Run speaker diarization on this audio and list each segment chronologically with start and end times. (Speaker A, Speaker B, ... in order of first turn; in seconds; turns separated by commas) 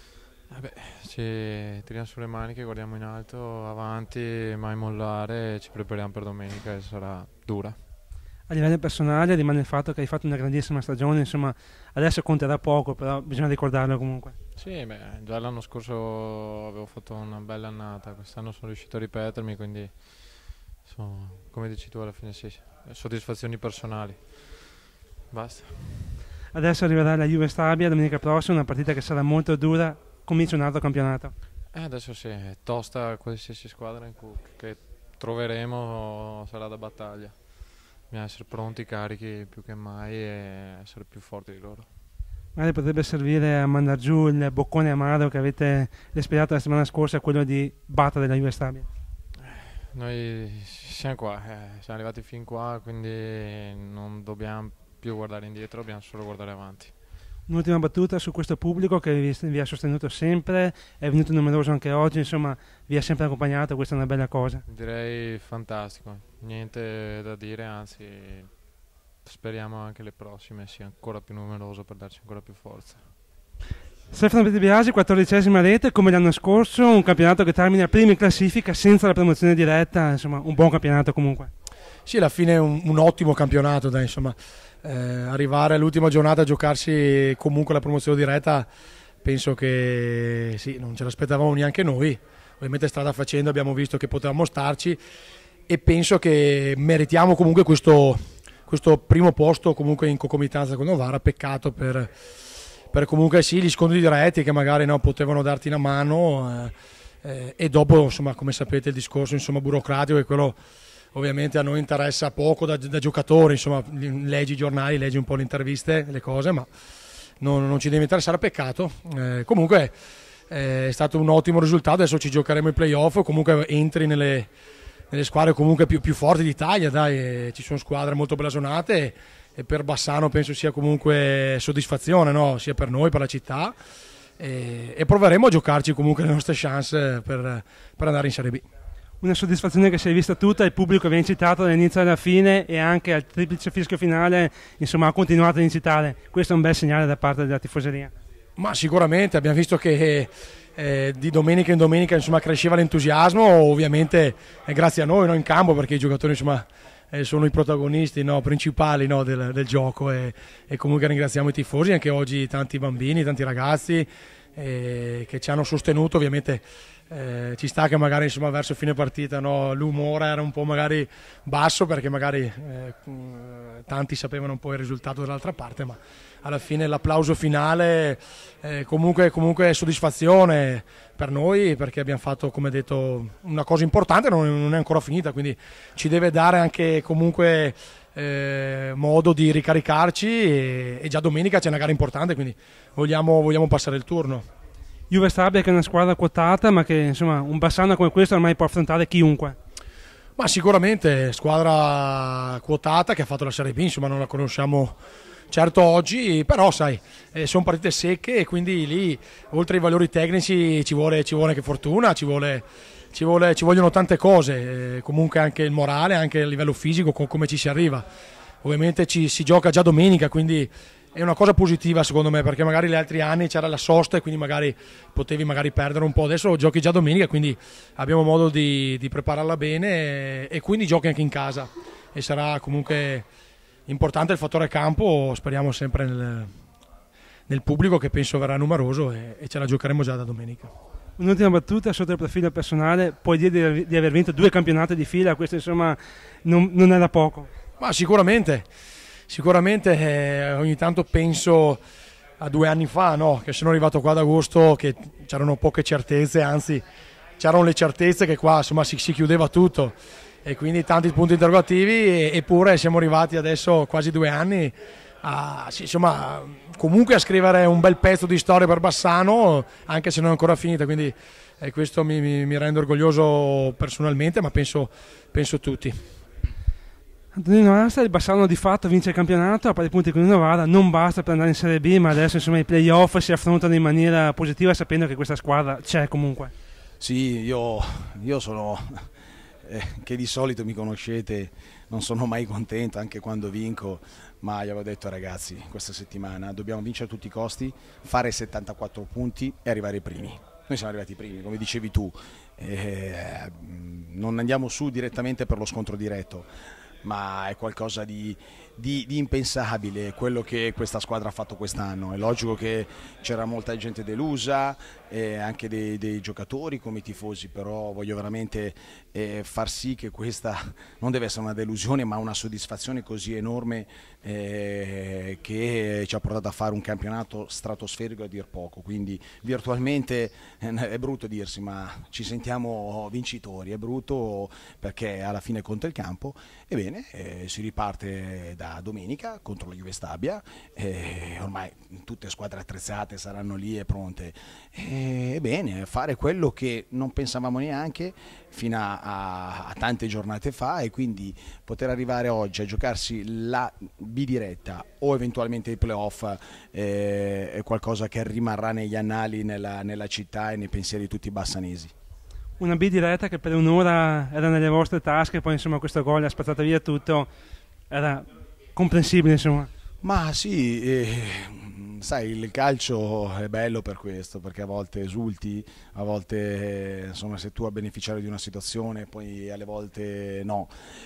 Speaker A: 0.5-7.8, Speaker B: 8.5-14.3, Speaker A: 14.6-24.7, Speaker A: 25.3-26.2, Speaker B: 26.5-31.3, Speaker A: 31.7-41.9, Speaker B: 42.5-48.9, Speaker A: 49.4-57.0, Speaker B: 57.5-64.6, Speaker A: 64.7-68.6, Speaker A: 69.2-73.1, Speaker B: 74.1-81.5, Speaker C: 82.1-88.7, Speaker C: 89.2-95.0, Speaker C: 95.7-102.1, Speaker C: 102.9-110.6, Speaker C: 111.1-116.7, Speaker C: 117.4-119.9, Speaker C: 120.5-124.5, Speaker C: 125.1-133.8, Speaker C: 134.4-138.7, Speaker B: 139.2-148.1, Speaker C: 148.6-194.5, Speaker B: 195.1-199.6, Speaker C: 200.4-205.0, Speaker C: 205.5-218.1, Speaker C: 218.6-233.3, Speaker C: 233.9-236.5, Speaker C: 237.5-240.7, Speaker B: 241.2-247.5, Speaker C: 247.8-248.7, Speaker C: 249.3-251.8, Speaker C: 252.4-256.8, Speaker C: 257.4-276.0, Speaker B: 277.3-286.5, Speaker D: 287.0-288.9, Speaker D: 289.6-306.5, Speaker D: 307.0-361.9, Speaker B: 362.6-367.3, Speaker B: 367.9-369.7, Speaker D: 370.0-380.7